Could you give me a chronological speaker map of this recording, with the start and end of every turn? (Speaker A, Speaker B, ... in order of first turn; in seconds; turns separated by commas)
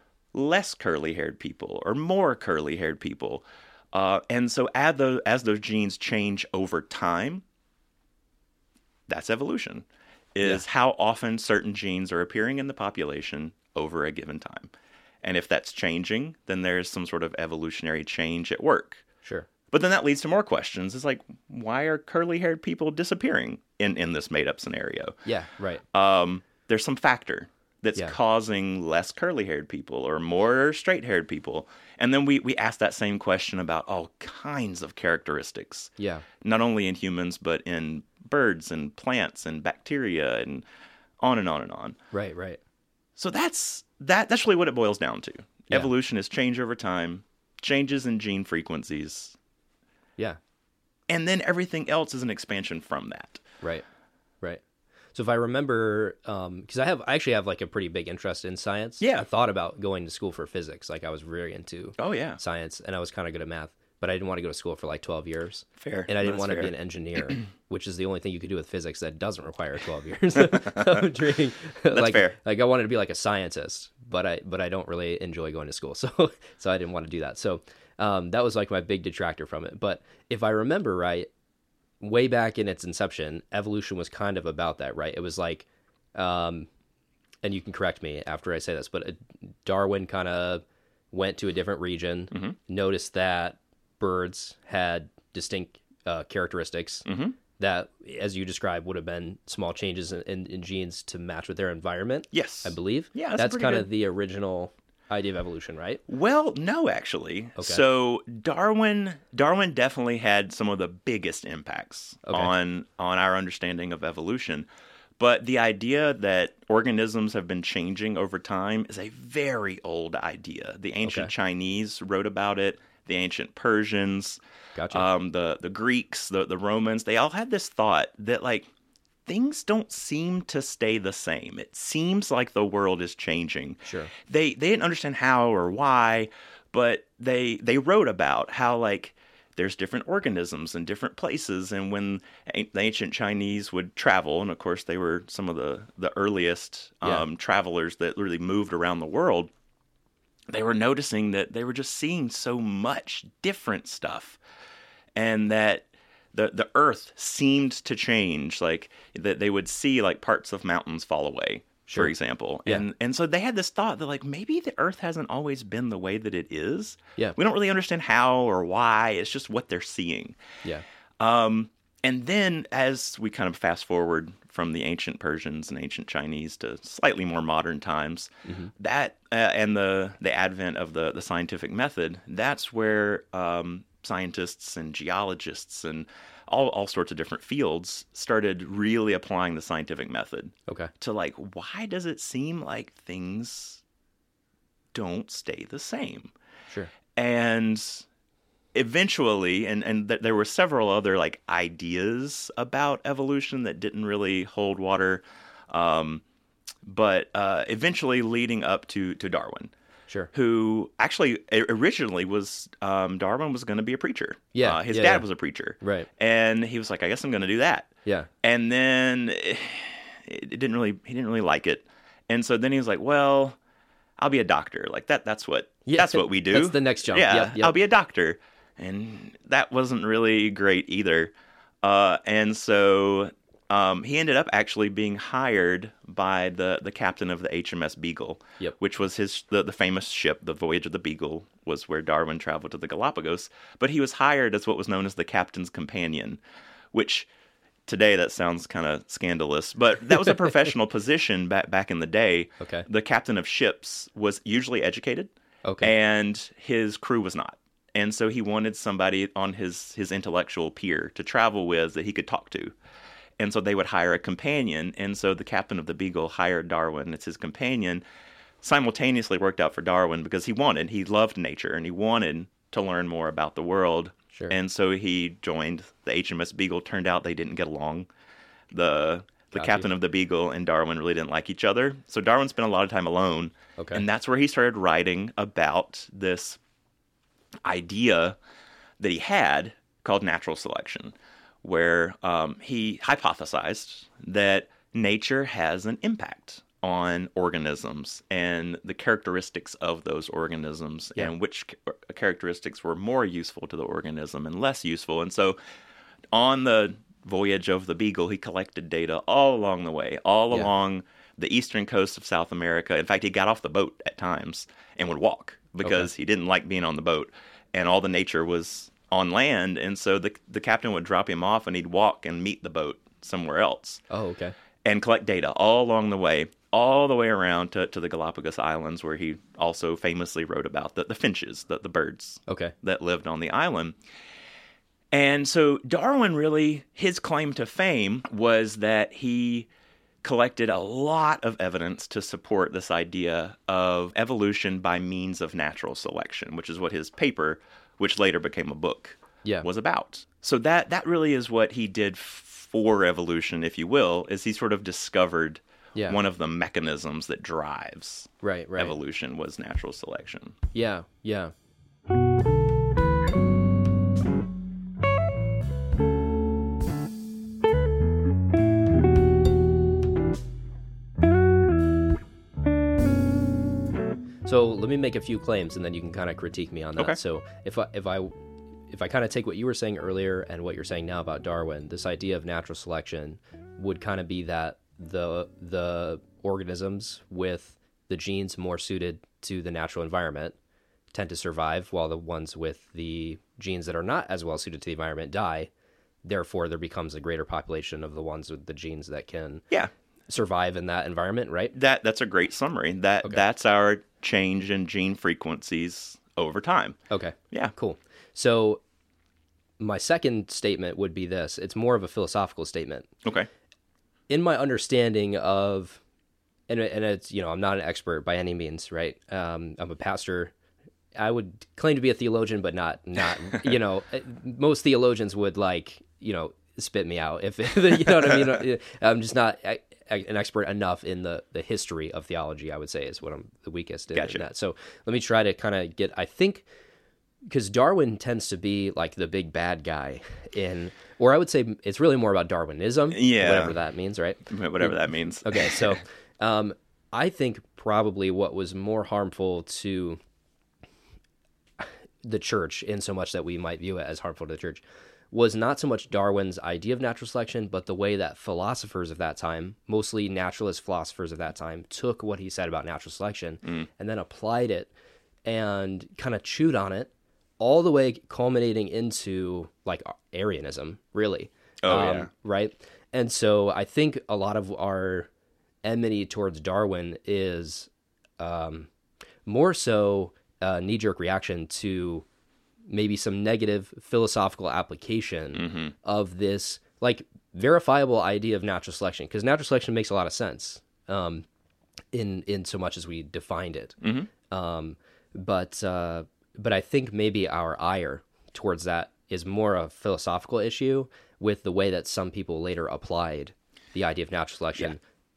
Speaker A: 0.3-7.4, Speaker A: 9.1-14.7, Speaker A: 15.2-19.0, Speaker A: 19.7-25.2, Speaker B: 25.2-25.8, Speaker A: 25.9-40.6, Speaker B: 36.0-36.2, Speaker A: 41.2-42.0, Speaker B: 42.1-42.6, Speaker A: 43.2-49.4, Speaker A: 51.1-53.4, Speaker B: 55.1-81.3, Speaker A: 59.0-59.3, Speaker A: 62.0-62.4, Speaker A: 65.8-66.7, Speaker A: 70.4-71.1, Speaker A: 71.9-72.4, Speaker B: 82.0-86.7, Speaker B: 87.4-97.0, Speaker A: 97.1-97.4, Speaker B: 97.6-106.0, Speaker A: 102.3-103.9, Speaker A: 106.1-114.7, Speaker B: 112.3-112.5, Speaker A: 115.2-124.4, Speaker B: 121.0-121.3, Speaker B: 124.8-125.0, Speaker A: 124.9-128.7, Speaker A: 129.3-149.5, Speaker B: 133.9-134.1, Speaker A: 150.5-154.4, Speaker A: 155.2-170.4, Speaker B: 161.9-162.1, Speaker A: 171.2-193.8, Speaker B: 178.5-178.7, Speaker A: 194.9-196.3, Speaker A: 197.1-198.1, Speaker A: 198.7-206.2, Speaker A: 206.8-209.7, Speaker A: 210.3-217.9, Speaker B: 214.6-215.3, Speaker B: 215.8-216.1, Speaker A: 218.4-223.6, Speaker A: 224.2-246.4, Speaker B: 225.9-227.7, Speaker A: 246.9-247.3, Speaker A: 247.9-262.8, Speaker B: 252.6-252.9, Speaker B: 255.7-255.9, Speaker A: 263.4-268.0, Speaker A: 268.6-278.1, Speaker A: 278.7-286.6, Speaker B: 279.6-279.9, Speaker B: 283.8-284.0, Speaker A: 287.6-288.4, Speaker A: 289.0-305.6, Speaker A: 306.3-324.0, Speaker B: 315.8-316.1, Speaker B: 324.1-324.6, Speaker A: 324.9-334.0, Speaker B: 332.5-332.7, Speaker A: 335.1-339.7, Speaker A: 340.2-360.6, Speaker B: 358.4-358.9, Speaker B: 360.7-361.5, Speaker B: 374.4-378.3, Speaker B: 378.9-390.6, Speaker B: 391.1-395.7, Speaker B: 396.2-399.6, Speaker B: 400.3-401.7, Speaker A: 401.7-407.0, Speaker B: 407.1-408.8, Speaker B: 409.8-413.1, Speaker A: 413.2-413.5, Speaker B: 414.3-416.0, Speaker B: 416.7-420.5, Speaker B: 421.2-436.6, Speaker A: 434.1-434.4, Speaker B: 437.5-450.2, Speaker A: 443.1-443.8, Speaker A: 444.5-446.0, Speaker B: 451.8-464.9, Speaker B: 465.5-475.3, Speaker A: 471.8-472.3, Speaker B: 475.8-478.9, Speaker B: 479.5-482.2, Speaker B: 482.9-491.4, Speaker A: 485.6-485.9, Speaker B: 492.1-505.0, Speaker A: 494.0-494.3